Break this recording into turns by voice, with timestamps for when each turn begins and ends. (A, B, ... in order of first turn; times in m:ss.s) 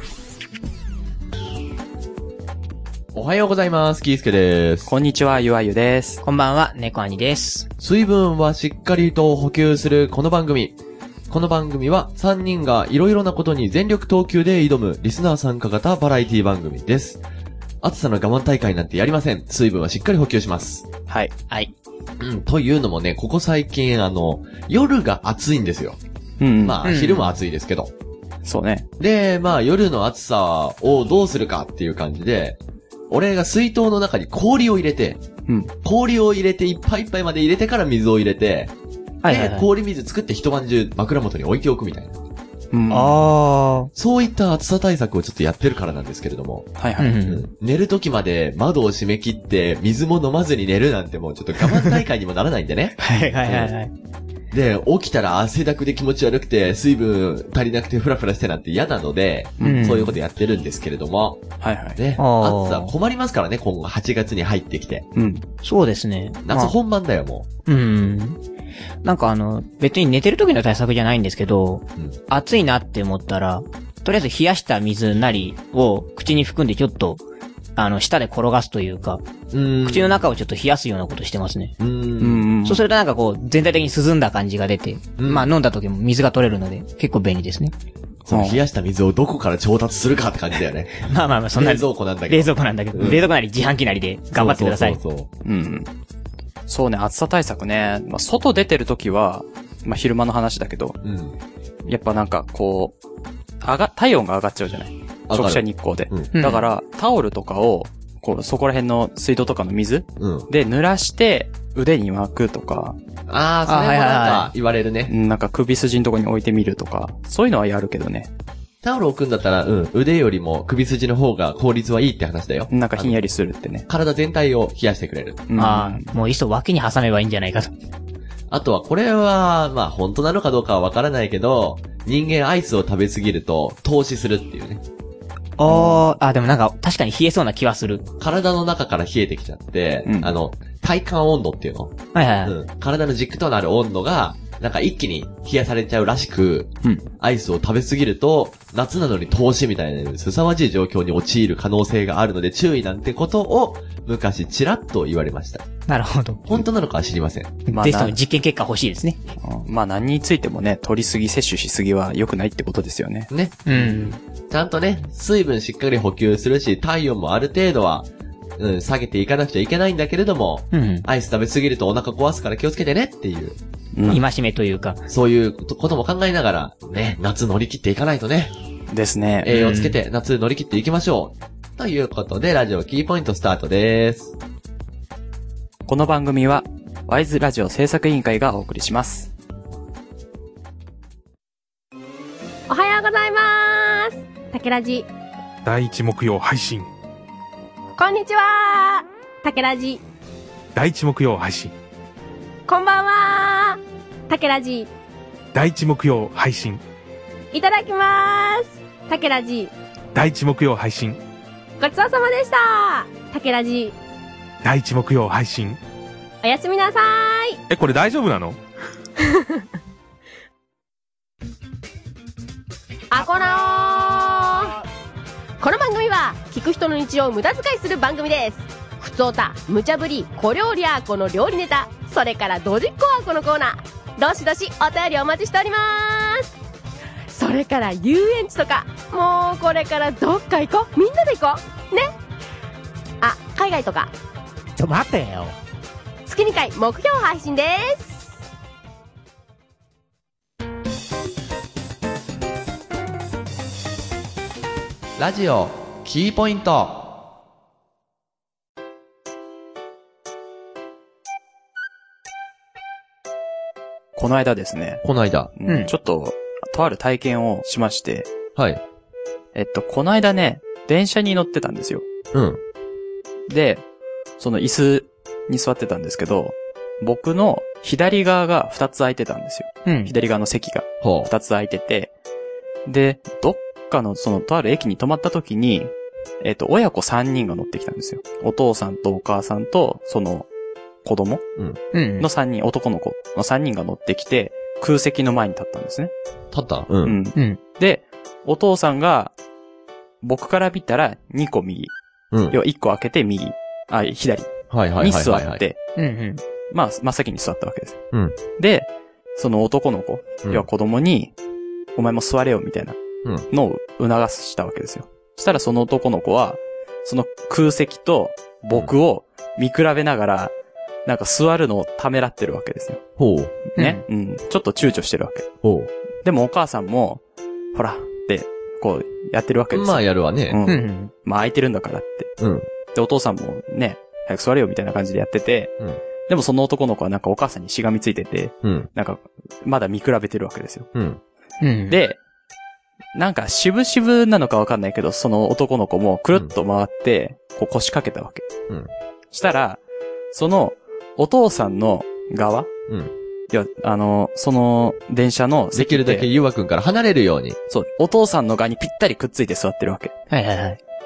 0:03.1-0:04.9 A
0:04.9-0:06.2 B
0:06.2-0:07.7 C
0:07.8-0:10.8 A
0:11.3-0:17.2 A
0:17.8-0:20.9 A
0:21.1-0:21.3 B
0:22.2-0:26.0 A
0:26.4-0:26.8 B
0:26.6-0:27.9 A
0:26.8-0:27.4 C
0:28.4-0:28.9 B
0:29.0-0:32.6 A
0:33.1-0:35.2 A
0:35.5-0:35.7 B
0:35.8-0:38.7 A
0:39.2-0:39.7 C
0:39.3-0:42.2 A
0:42.7-0:43.2 B
0:42.9-0:43.9 C
0:44.0-0:46.7 A
0:46.8-0:47.2 B
0:47.0-0:47.5 C
0:47.2-0:53.7 A
0:53.0-0:53.9 C
0:54.5-1:01.4 A
0:59.6-0:59.9 B
0:59.6-1:00.2 C
1:01.6-1:02.0 B
1:02.0-1:05.1 A
1:02.2-1:02.9 C
1:05.2-1:05.4 B
1:05.6-1:06.7 C
1:06.4-1:07.5 A
1:07.7-1:08.4 C
1:09.0-1:17.2 C
1:17.8-1:19.3 C
1:19.5-1:20.3 A
1:19.8-1:21.8 C
1:21.8-1:22.5 A
1:22.2-1:22.8 B
1:22.6-1:27.7 C
1:25.2-1:25.5 A
1:28.3-1:28.6 B
1:28.3-1:33.3 A
1:31.0-1:35.0 C
1:34.4-1:35.3 A
1:35.4-1:35.9 B
1:36.7-1:41.0 B
1:41.0-1:41.4 A
1:41.9-1:43.0 B
1:43.6-1:53.0 B
1:45.3-1:46.3 A
1:46.4-1:46.7 C
1:50.2-1:50.5 A
1:53.3-1:55.1 A
1:53.7-1:54.5 C
1:55.1-1:58.3 B
1:58.8-2:03.2 A
2:02.7-2:03.9 B
2:03.9-2:05.5 A
2:05.5-2:06.1 B
2:05.6-2:07.7 C
2:08.5-2:14.8 A
2:15.6-2:18.1 C
2:15.7-2:16.0 B
2:18.2-2:21.9 A
2:20.0-2:20.4 B
2:22.1-2:22.6 C
2:22.4-2:35.7 A
2:26.8-2:27.1 B
2:35.9-2:36.6 C
2:36.5-2:37.6 A
2:37.7-2:39.2 C
2:37.7-2:38.2 B
2:39.4-2:43.3 B
2:43.3-2:44.0 A
2:43.7-2:44.2 C
2:44.5-2:53.6 A
2:50.7-2:51.1 C
2:54.0-2:54.2 B
2:54.1-2:55.0 C
2:55.1-2:58.5 A
2:58.9-2:59.5 B
2:59.4-3:04.4 A
2:59.5-3:00.0 C
3:05.9-3:09.3 B
3:12.7-3:15.1 D
3:15.6-3:16.9 E
3:18.0-3:20.0 D
3:20.8-3:21.7 E
3:22.7-3:24.9 D
3:25.5-3:26.8 E
3:27.5-3:29.7 D
3:30.2-3:31.2 E
3:31.8-3:34.0 D
3:34.6-3:35.8 E
3:36.4-3:37.6 D
3:37.7-3:38.6 E
3:39.2-3:39.6 D
3:43.1-3:44.8 D
3:45.6-3:56.5 D
3:57.3-4:02.1 D
4:03.2-4:04.1 D
4:04.8-4:05.6 C
4:06.3-4:08.3 D
4:15.2-4:17.1 A
4:24.2-4:25.0 B
4:25.0-4:25.5 A
4:25.6-4:28.3 B
4:25.7-4:25.9 C
4:28.6-4:28.8 A
4:29.6-4:32.1 B
4:32.3-4:32.6 A
4:33.5-4:33.8 B
4:34.4-4:42.1 B
4:39.8-4:40.1 C
4:41.0-4:41.3 A
4:42.9-4:50.5 B
4:51.0-4:51.4 B
4:51.9-4:52.3 C
4:52.2-4:56.1 B
4:56.5-4:57.2 A
4:57.0-4:59.4 B
5:00.2-5:01.9 B
5:02.3-5:02.6 A
5:02.5-5:05.8 B
5:04.7-5:05.6 A
5:06.0-5:06.4 C
5:06.7-5:08.0 B
5:08.1-5:08.4 A
5:08.6-5:11.3 B
5:12.0-5:13.0 B
5:13.5-5:20.5 B
5:21.1-5:23.0 B
5:23.2-5:23.6 A
5:23.7-5:25.5 B
5:23.8-5:24.0 C
5:25.6-5:25.9 A
5:26.2-5:27.2 B
5:27.7-5:32.3 B
5:29.7-5:30.6 A
5:30.7-5:31.1 C
5:32.4-5:32.7 A
5:32.9-5:35.7 B
5:36.3-5:40.9 B
5:38.6-5:38.9 A
5:40.9-5:41.2 A
5:41.6-5:42.0 C
5:41.9-5:42.2 B
5:43.2-5:48.5 B
5:49.3-5:49.8 B
5:50.3-5:52.7 B
5:52.9-5:53.1 A
5:53.5-5:56.3 B
5:55.7-5:57.6 A
5:57.7-6:00.1 B
6:00.3-6:00.8 C